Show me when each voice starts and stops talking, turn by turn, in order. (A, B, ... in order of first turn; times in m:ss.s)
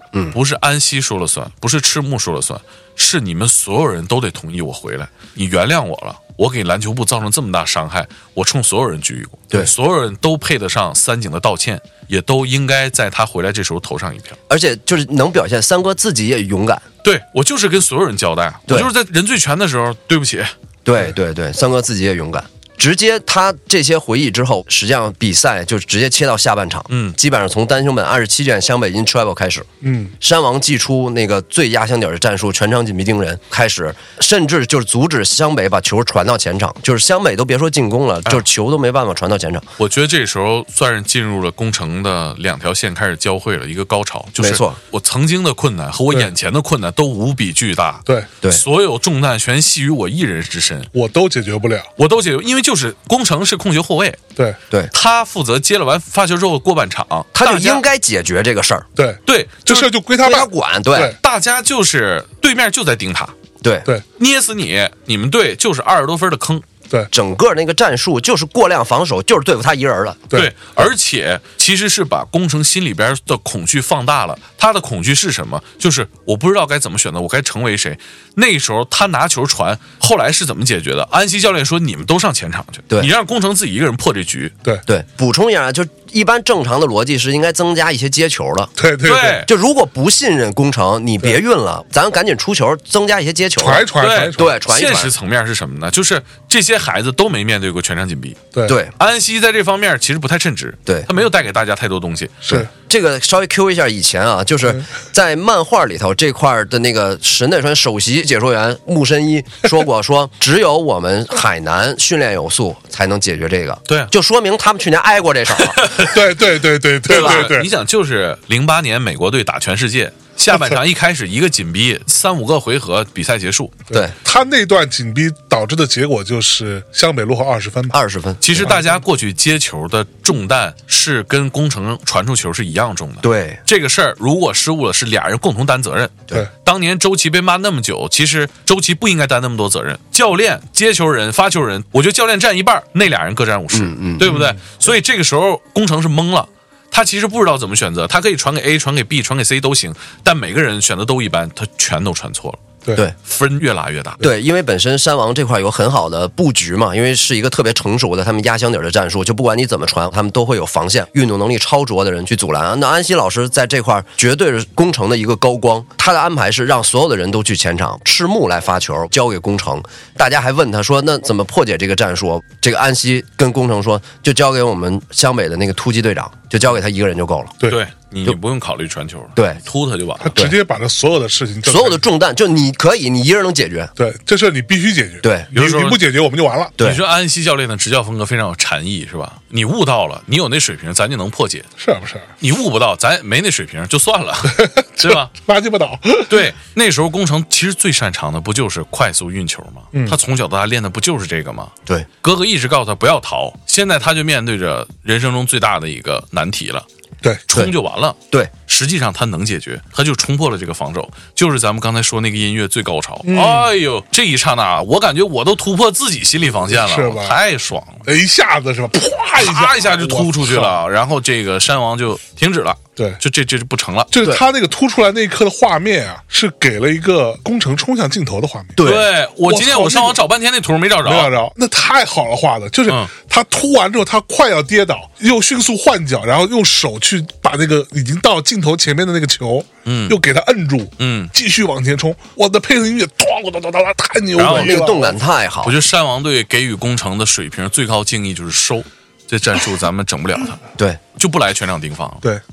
0:00.3-0:14.4 A
0:14.5-0:16.8 B
0:17.0-0:20.5 A
0:20.8-0:29.7 B
0:26.9-0:27.2 A
0:29.8-0:30.1 C
0:30.2-0:39.7 B
0:39.8-0:50.9 A
0:44.4-0:44.8 B
0:50.9-0:51.9 C
0:52.0-0:54.2 A
0:54.9-0:57.8 A
0:57.3-0:58.8 B
0:59.0-1:01.2 C
0:59.3-0:59.9 A
1:00.2-1:01.2 B
1:01.1-1:03.3 A
1:03.6-1:03.9 B
1:04.2-1:06.6 A
1:07.1-1:10.2 B
1:10.3-1:10.9 C
1:10.3-1:24.6 A
1:24.9-1:28.7 B
1:28.8-1:29.4 C
1:29.0-1:29.5 A
1:29.4-1:35.1 B
1:33.6-1:34.6 C
1:34.0-1:38.4 A
1:38.7-1:38.9 B
1:39.0-1:42.6 A
1:42.5-1:55.9 B
1:55.6-1:56.4 A
1:56.0-1:57.7 C
1:57.0-2:03.8 A
1:57.1-1:57.5 B
2:00.5-2:00.8 C
2:03.9-2:08.0 C
2:07.9-2:08.7 B
2:08.4-2:32.6 A
2:13.2-2:13.6 B
2:23.7-2:24.3 B
2:24.2-2:24.6 C
2:33.2-2:34.2 A
2:34.2-2:57.6 B
2:57.6-3:00.4 A
3:00.2-3:02.0 C
3:01.6-3:03.9 B
3:04.0-3:06.8 C
3:05.2-3:05.5 B
3:05.5-3:06.0 A
3:06.8-3:11.7 A
3:11.8-3:12.3 C
3:12.4-3:15.3 A
3:14.5-3:16.5 C
3:16.3-3:26.9 A
3:19.9-3:20.2 C
3:27.5-3:38.1 A
3:33.2-3:33.7 C
3:36.7-3:37.4 C
3:38.0-3:40.8 C
3:39.4-3:44.1 A
3:44.1-3:50.2 C
3:48.8-3:49.1 B
3:48.8-3:51.3 A
3:51.0-4:05.2 C
3:59.8-4:00.2 A
4:01.0-4:01.3 A
4:04.4-4:04.8 A
4:04.5-4:05.8 B
4:05.6-4:10.6 A
4:11.2-4:12.2 A